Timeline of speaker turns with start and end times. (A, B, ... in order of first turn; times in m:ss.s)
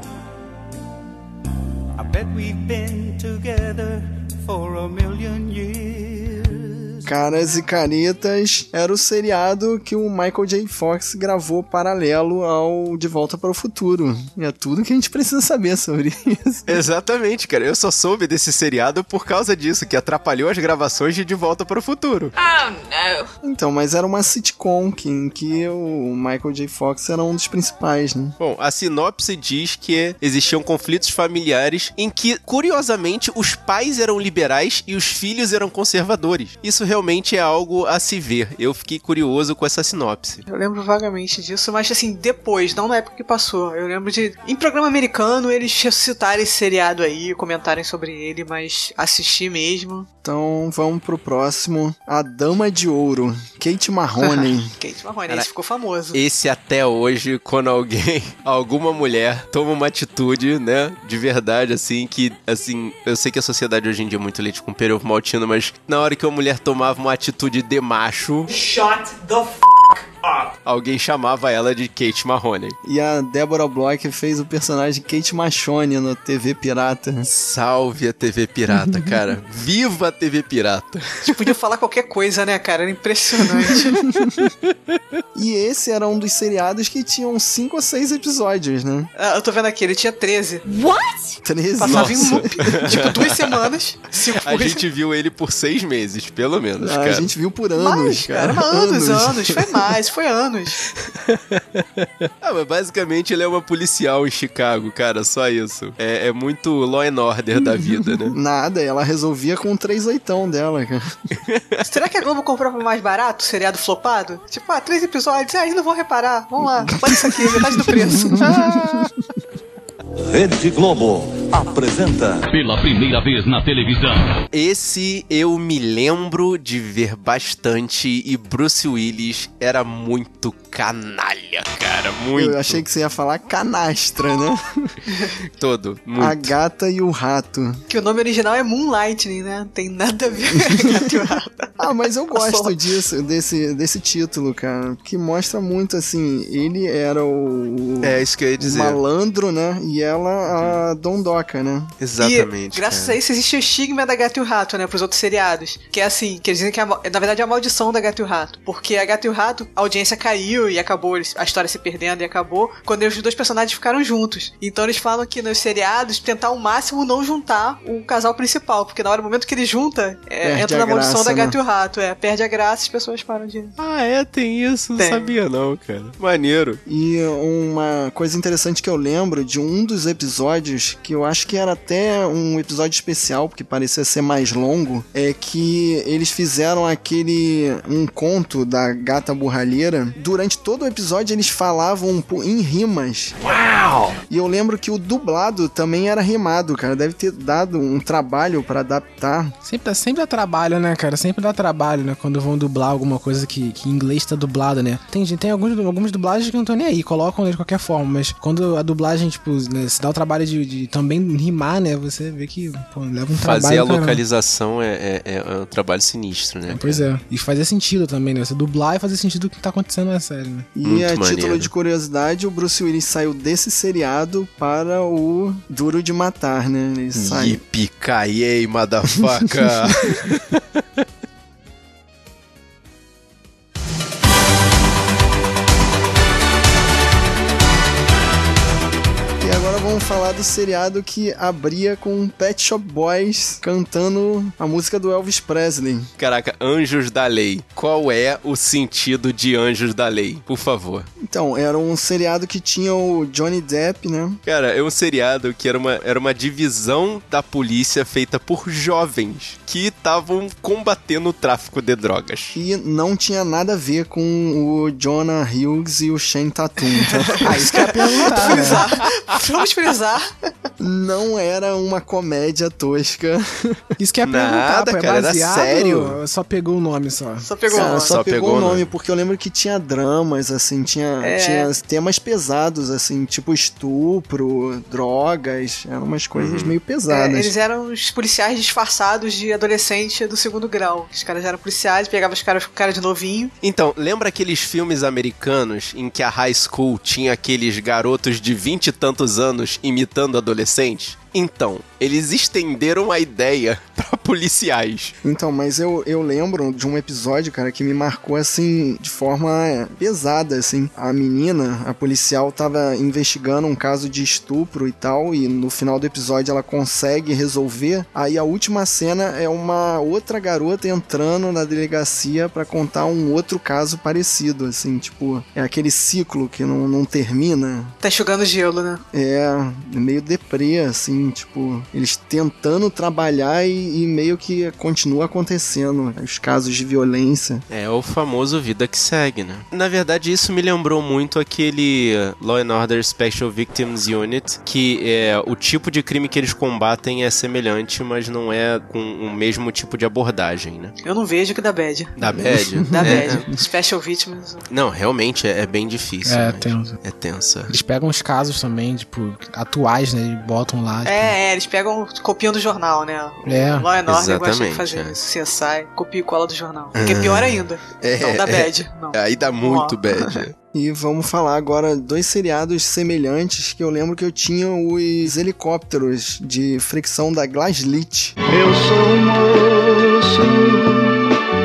0:02.0-0:07.0 A
0:07.0-0:16.8 B
0:16.7-0:22.3 C
0:22.4-0:23.3 A
0:23.4-0:28.4 B
0:28.4-0:40.4 C
0:40.5-0:50.1 D
0:50.2-0:54.8 B
0:54.3-0:56.2 D
0:56.1-1:08.5 C
1:08.5-1:10.5 A
1:10.6-1:12.8 C
1:12.8-1:17.3 B
1:17.2-1:21.5 C
1:21.2-1:24.0 D
1:24.5-1:25.0 C
1:25.4-1:29.1 B
1:29.2-1:30.6 D
1:30.7-1:31.4 A
1:31.4-1:32.5 B
1:31.8-1:34.8 D
1:31.9-1:33.6 C
1:34.4-1:37.3 C
1:36.8-1:39.8 B
1:37.8-1:40.8 D
1:41.0-1:48.4 C
1:47.8-1:51.1 B
1:51.5-1:51.9 C
1:51.8-1:58.7 D
1:57.5-1:59.0 B
2:00.3-2:02.4 E
2:02.5-2:04.4 F
2:04.5-2:12.8 C
2:12.4-2:15.0 B
2:15.6-2:16.5 C
2:16.2-2:17.8 B
2:17.9-2:22.8 D
2:20.5-2:20.9 B
2:21.8-2:32.0 B
2:28.0-2:29.0 C
2:30.6-2:30.8 C
2:32.0-2:33.2 C
2:32.2-2:53.7 D
2:50.4-2:51.6 B
2:53.8-2:56.8 C
2:55.0-2:55.4 D
2:56.9-3:13.4 B
3:13.6-3:14.1 A
3:14.3-3:19.6 B
3:19.6-3:34.2 G
3:33.4-3:37.0 C
3:36.7-3:40.7 G
3:40.8-3:47.6 B
3:40.8-3:41.7 C
3:47.2-3:50.6 C
3:59.4-4:06.1 B
4:06.2-4:11.1 C
4:11.2-4:14.4 B
4:14.5-4:22.6 C
4:22.5-4:27.8 B
4:27.1-4:30.3 D
4:27.4-4:28.8 G
4:30.8-4:33.8 B
4:34.0-4:37.5 G
4:34.2-4:36.2 C
4:37.4-4:38.2 D
4:37.7-4:47.5 B
4:37.8-4:38.9 C
4:41.2-4:41.7 D
4:46.4-4:46.8 C
4:47.1-4:53.5 D
4:53.6-5:05.1 C
5:05.2-5:28.0 B
5:28.0-5:29.0 D
5:29.1-5:37.6 B
5:37.7-5:51.0 C
5:51.0-5:52.1 D
5:52.2-5:53.4 C
5:52.4-5:53.5 B
5:52.9-5:54.6 D
5:54.7-5:57.7 C
5:56.2-5:57.0 G
5:57.7-6:01.4 G
6:01.0-6:10.4 D
6:03.5-6:03.9 G
6:04.1-6:05.2 C
6:07.0-6:10.5 C
6:10.7-6:18.4 B
6:18.5-6:21.2 A